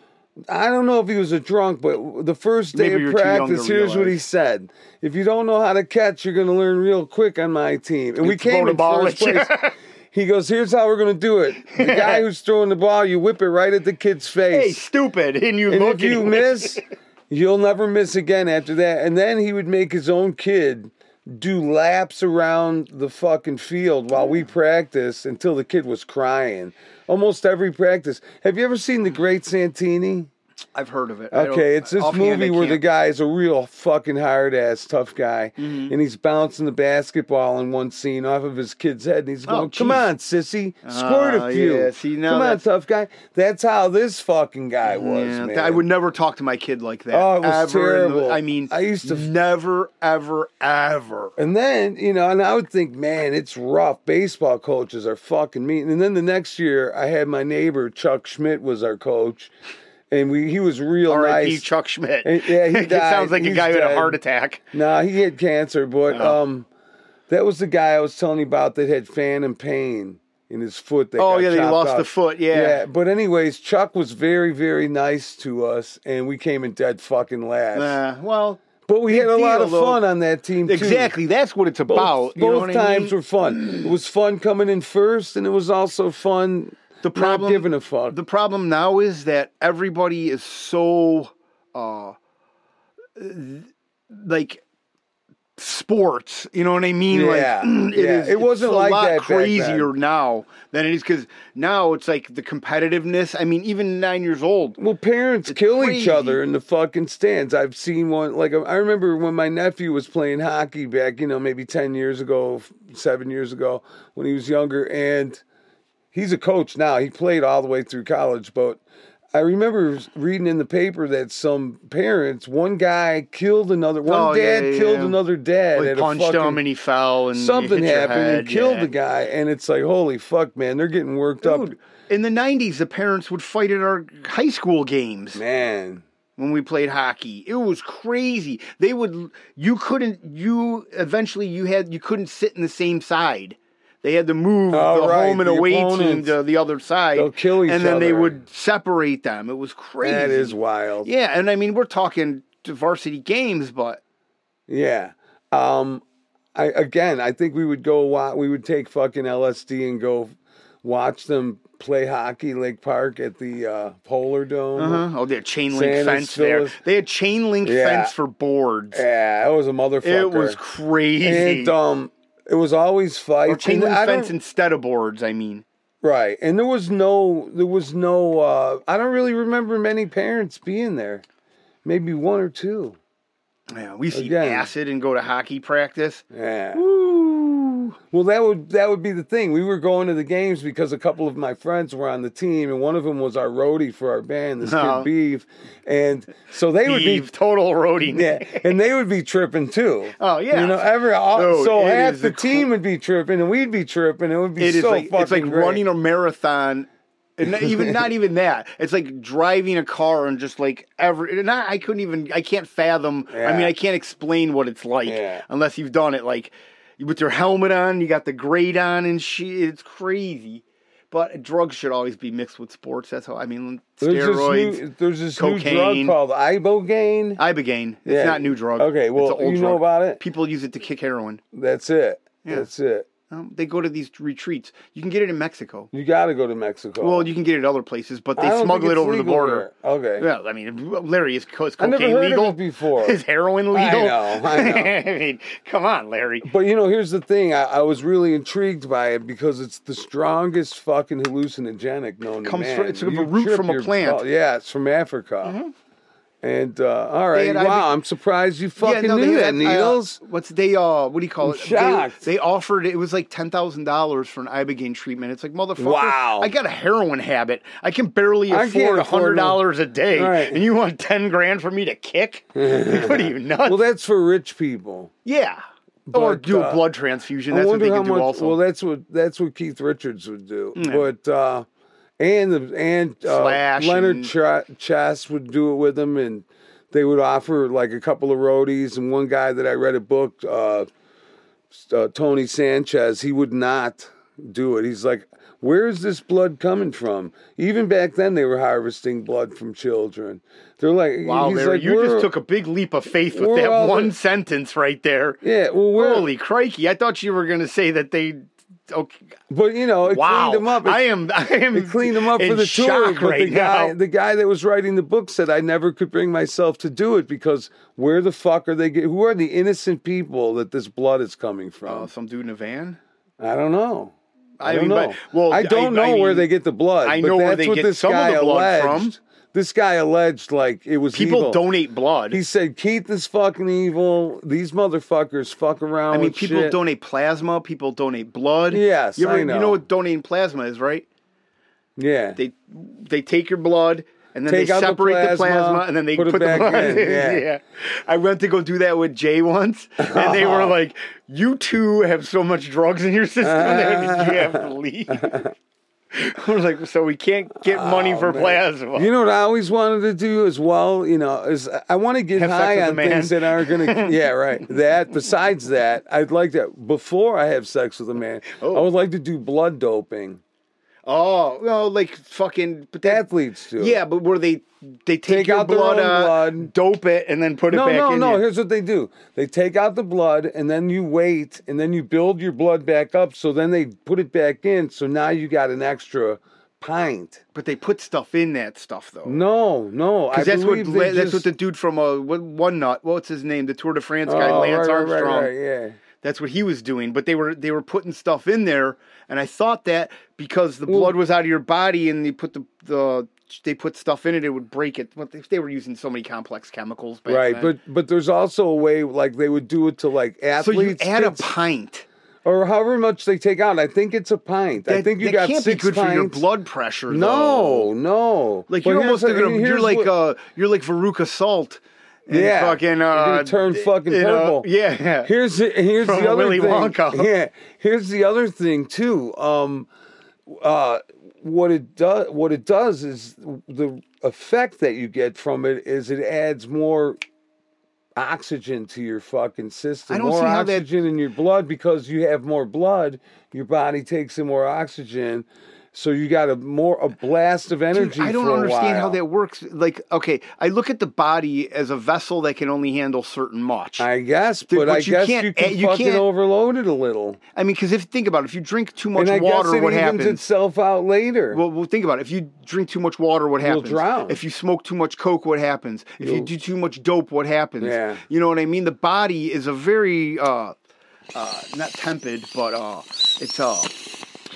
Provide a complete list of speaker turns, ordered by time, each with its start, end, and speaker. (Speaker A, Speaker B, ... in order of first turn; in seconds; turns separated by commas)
Speaker A: 0.5-9.5, Speaker B: 2.7-4.2, Speaker B: 8.2-9.7, Speaker A: 10.1-14.8, Speaker B: 11.7-12.2, Speaker B: 14.5-16.8, Speaker A: 15.7-30.3, Speaker B: 30.7-32.8, Speaker A: 31.3-45.8, Speaker B: 35.6-35.9, Speaker B: 39.5-40.1, Speaker B: 40.8-42.6, Speaker B: 44.8-51.4, Speaker A: 47.1-49.3, Speaker A: 51.4-59.5, Speaker A: 60.1-61.6, Speaker B: 61.1-64.6, Speaker A: 62.2-64.2, Speaker A: 64.7-66.7, Speaker B: 66.1-66.4, Speaker A: 67.3-78.0, Speaker B: 71.2-72.8, Speaker B: 77.7-80.0, Speaker A: 78.8-81.1, Speaker B: 80.7-83.9, Speaker A: 81.9-88.2, Speaker B: 87.0-92.2, Speaker B: 93.2-94.6, Speaker B: 95.6-104.8, Speaker A: 97.1-99.9, Speaker A: 104.8-115.4, Speaker B: 105.5-106.4, Speaker A: 116.1-118.8, Speaker A: 119.3-126.6, Speaker B: 124.0-125.2, Speaker B: 125.7-128.9, Speaker A: 127.3-131.7, Speaker B: 131.4-135.4, Speaker A: 135.3-136.0, Speaker B: 136.4-154.0, Speaker A: 144.7-146.3, Speaker A: 147.2-148.4, Speaker A: 150.0-151.1, Speaker A: 154.7-156.0, Speaker A: 156.5-165.0, Speaker B: 164.8-169.0, Speaker A: 165.7-166.8, Speaker A: 167.6-168.1, Speaker A: 168.9-170.6, Speaker B: 170.0-171.7, Speaker A: 171.2-174.3, Speaker B: 173.4-175.6, Speaker A: 176.0-181.2, Speaker A: 181.8-183.0, Speaker B: 183.7-187.9, Speaker A: 184.1-184.7, Speaker A: 186.3-186.8, Speaker A: 188.1-197.3, Speaker B: 194.6-195.1, Speaker B: 196.8-198.7, Speaker A: 198.1-205.8, Speaker B: 200.2-202.7, Speaker B: 204.6-224.8, Speaker A: 213.3-213.7, Speaker A: 215.0-215.4, Speaker A: 224.0-227.4, Speaker B: 225.3-226.2, Speaker B: 227.4-231.4, Speaker A: 228.0-230.2, Speaker A: 231.5-233.1, Speaker B: 233.3-235.9, Speaker A: 235.9-237.3, Speaker B: 237.0-239.7, Speaker A: 238.4-240.3, Speaker B: 240.2-246.5, Speaker A: 241.8-243.2, Speaker A: 243.7-244.9, Speaker A: 246.4-255.6, Speaker B: 252.4-254.2, Speaker B: 255.4-255.7, Speaker A: 256.4-260.2, Speaker B: 257.3-257.9, Speaker B: 258.8-273.8, Speaker A: 261.4-262.2, Speaker A: 265.8-266.5, Speaker A: 268.5-269.6, Speaker A: 270.1-270.6, Speaker A: 272.6-275.1, Speaker B: 275.2-275.6, Speaker A: 276.1-276.8, Speaker B: 276.1-278.6, Speaker A: 277.5-281.6, Speaker B: 280.8-281.0, Speaker A: 282.2-290.9, Speaker B: 283.2-284.3, Speaker A: 291.7-302.3, Speaker B: 301.2-305.4, Speaker A: 303.3-304.1, Speaker A: 305.4-306.3, Speaker B: 305.9-309.2, Speaker A: 309.5-311.0, Speaker B: 310.0-314.0, Speaker A: 311.7-322.1, Speaker B: 321.9-323.0, Speaker A: 323.4-331.6, Speaker B: 324.6-326.5, Speaker B: 327.0-329.1, Speaker B: 331.1-332.4, Speaker A: 332.3-336.8, Speaker B: 336.1-341.1, Speaker A: 338.7-339.8, Speaker A: 342.0-342.4, Speaker B: 342.4-355.3, Speaker A: 344.5-347.4, Speaker A: 350.0-350.7, Speaker A: 353.4-355.5, Speaker B: 356.1-359.1, Speaker A: 357.6-370.4, Speaker B: 362.4-364.1, Speaker B: 368.4-368.9, Speaker B: 371.1-373.2, Speaker A: 373.0-374.0, Speaker B: 373.8-378.4, Speaker A: 375.3-376.7, Speaker A: 377.7-387.4, Speaker B: 387.5-389.4, Speaker A: 389.2-391.5, Speaker B: 390.3-395.5, Speaker A: 394.2-396.0, Speaker B: 396.2-407.7, Speaker A: 400.9-401.1, Speaker A: 407.3-411.5, Speaker B: 410.6-412.1, Speaker A: 412.4-416.5, Speaker B: 414.9-417.9, Speaker A: 417.1-420.1, Speaker B: 418.7-425.3, Speaker A: 422.3-424.7, Speaker A: 425.2-429.9, Speaker B: 426.0-427.3, Speaker A: 430.5-437.2, Speaker A: 438.1-449.2, Speaker B: 440.1-440.9, Speaker B: 447.9-454.1, Speaker A: 454.0-457.4, Speaker B: 454.7-456.2, Speaker B: 457.5-460.4, Speaker A: 459.1-461.6, Speaker B: 461.5-470.7, Speaker A: 463.6-464.4, Speaker A: 466.2-466.5, Speaker A: 467.8-468.2, Speaker B: 471.3-474.1